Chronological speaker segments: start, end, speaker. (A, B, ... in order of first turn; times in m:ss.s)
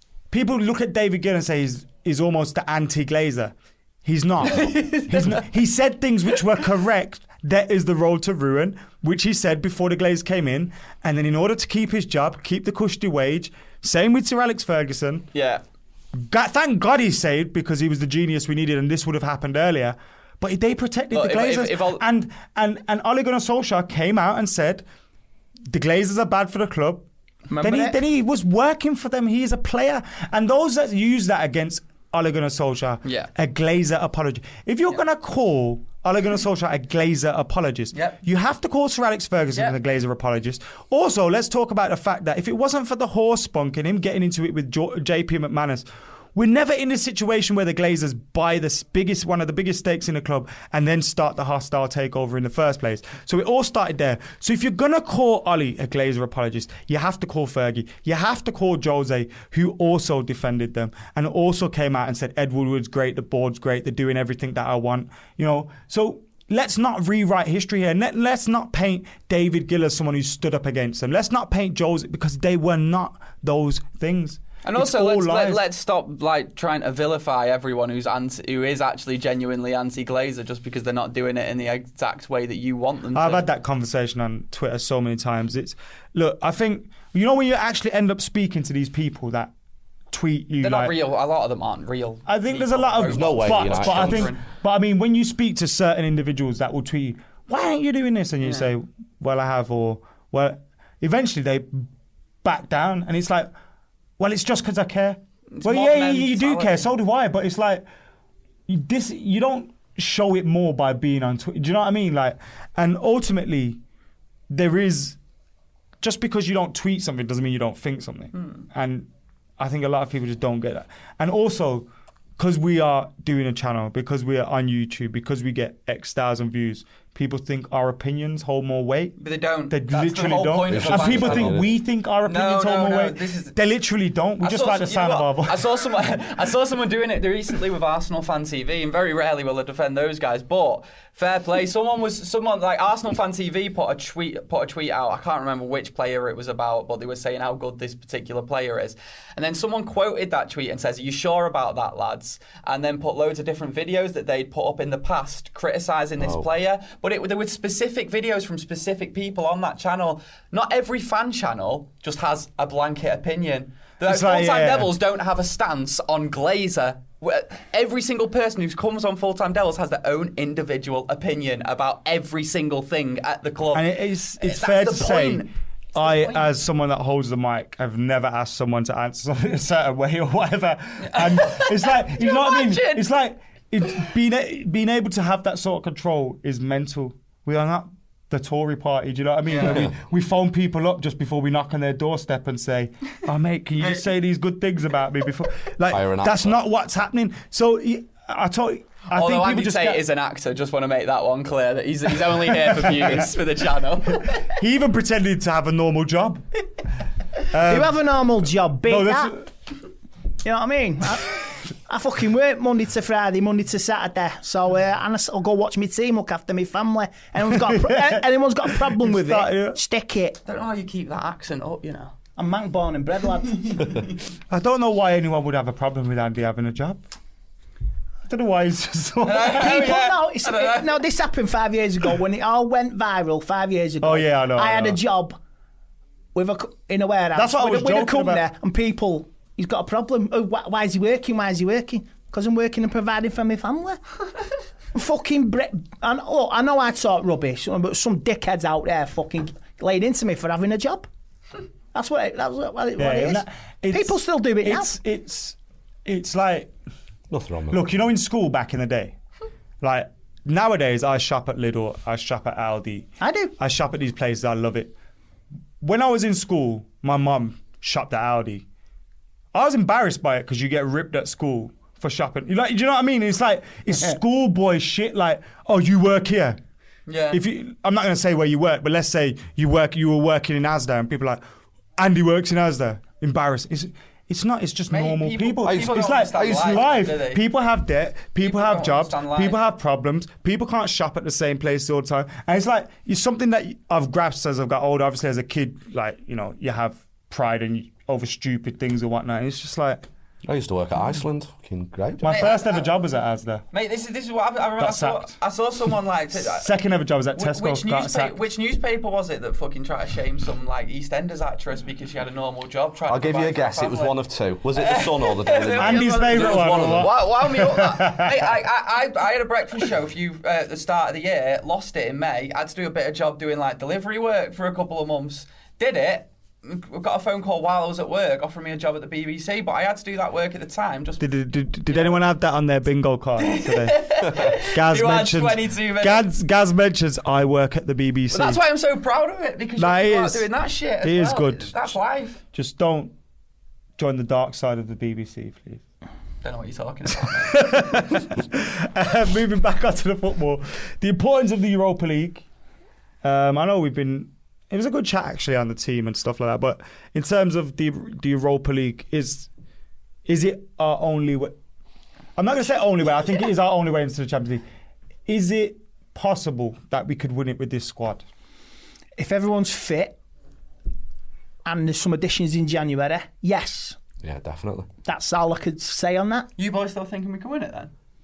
0:00.3-0:15.3 A
0:04.5-0:05.4 B
0:15.3-0:15.6 B
0:16.2-0:24.8 A
0:21.1-0:22.0 B
0:25.7-0:27.1 A
0:27.5-0:28.0 C
0:27.6-1:15.6 A
0:33.0-0:33.3 B
0:37.9-0:38.2 B
1:14.6-1:23.4 B
1:23.1-1:29.5 A
1:30.1-1:31.0 A
1:30.6-1:34.4 B
1:32.3-1:41.9 A
1:33.1-1:34.3 D
1:38.4-1:38.7 B
1:42.4-1:43.5 A
1:44.2-1:47.9 A
1:45.5-1:46.9 B
1:48.7-1:53.8 A
1:54.5-1:55.2 A
1:56.0-2:09.2 A
1:58.4-1:58.6 B
2:09.2-2:11.7 B
2:09.7-2:15.8 A
2:10.7-2:11.7 D
2:12.2-2:13.6 B
2:14.4-2:56.5 B
2:36.2-2:36.5 D
2:44.0-2:44.9 A
2:53.7-3:20.0 A
3:01.1-3:03.1 B
3:09.5-3:09.8 B
3:09.6-3:09.9 D
3:15.9-3:16.6 D
3:19.1-3:24.5 B
3:22.5-3:23.3 A
3:24.2-3:26.4 A
3:27.5-3:28.0 A
3:27.7-3:29.4 C
3:28.9-3:29.5 A
3:30.4-3:40.4 C
3:37.5-3:39.8 A
3:40.5-3:42.1 B
3:42.4-3:43.9 C
3:44.5-3:47.0 A
3:48.3-3:50.0 A
3:49.2-3:51.0 B
3:49.5-3:55.4 C
3:54.0-3:55.0 A
3:56.4-4:04.0 C
3:57.4-3:58.4 A
4:04.9-4:11.1 C
4:11.9-4:15.0 C
4:13.0-4:16.7 A
4:17.3-4:17.9 D
4:17.7-4:19.2 A
4:19.8-4:25.0 A
4:23.2-4:23.5 C
4:25.8-4:28.6 A
4:29.5-4:36.6 A
4:37.1-4:37.4 B
4:37.3-4:41.4 A
4:42.0-5:00.0 A
4:44.9-4:47.4 B
4:45.6-4:47.0 D
4:48.4-4:49.6 B
5:00.5-5:02.5 D
5:02.2-5:03.6 A
5:02.2-5:02.9 B
5:03.7-5:06.7 B
5:04.8-5:05.3 A
5:06.4-5:08.4 A
5:07.4-5:14.2 B
5:13.1-5:17.2 D
5:14.7-5:31.3 B
5:15.8-5:18.5 A
5:31.2-5:38.6 A
5:31.9-5:32.2 B
5:33.4-5:36.3 B
5:38.3-5:42.4 B
5:39.8-5:40.5 A
5:41.0-5:42.0 A
5:42.5-5:43.1 A
5:44.0-5:45.8 A
5:46.4-5:48.2 B
5:47.2-5:52.4 A
5:53.2-5:59.5 A
6:00.3-6:01.6 A
6:02.4-6:04.6 A
6:05.3-6:08.3 A
6:09.2-6:10.2 C
6:11.6-6:14.0 C
6:14.2-6:14.9 D
6:15.0-6:16.5 C
6:16.6-6:17.9 B